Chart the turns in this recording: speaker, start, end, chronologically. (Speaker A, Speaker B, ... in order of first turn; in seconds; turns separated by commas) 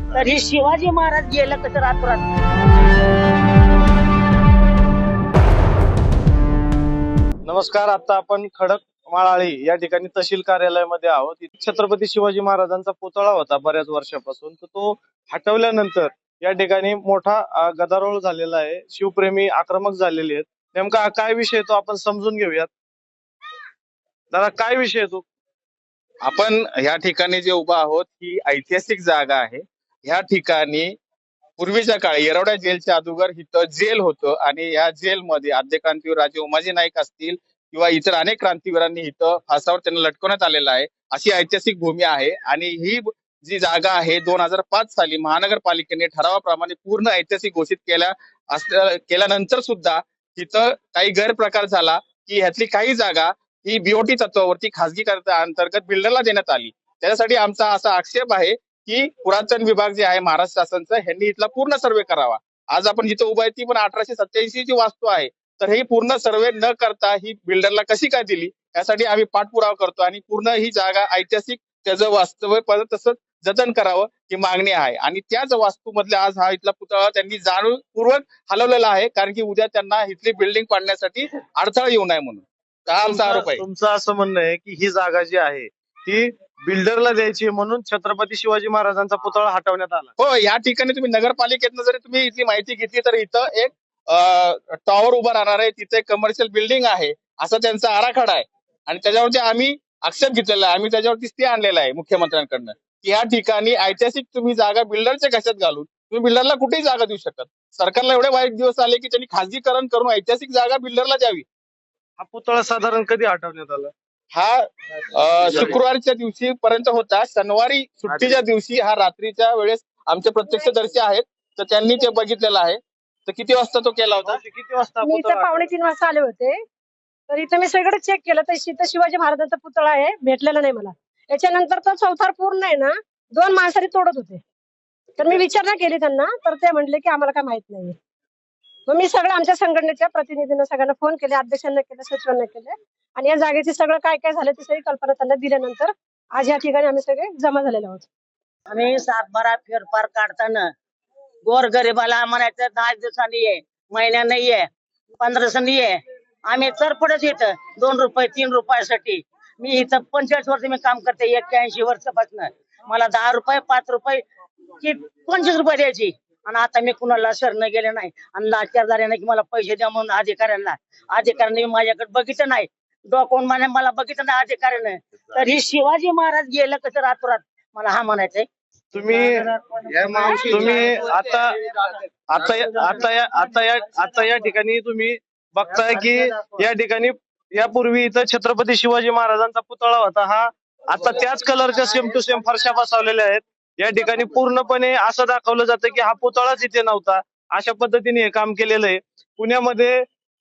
Speaker A: 0.1-2.2, Speaker B: 7.5-22.7, Speaker B: 24.3-25.2, Speaker C: 26.2-30.9, Speaker C: 31.6-83.6, Speaker B: 83.0-90.1, Speaker C: 90.2-111.5, Speaker B: 112.2-113.9, Speaker C: 114.3-124.4, Speaker B: 124.2-125.7, Speaker D: 125.0-126.6, Speaker D: 127.3-134.4, Speaker D: 135.2-138.0, Speaker D: 138.9-148.1, Speaker A: 148.7-150.7, Speaker A: 151.5-154.7, Speaker A: 155.2-164.2, Speaker A: 164.8-178.5, Speaker B: 178.9-181.6, Speaker B: 182.3-200.0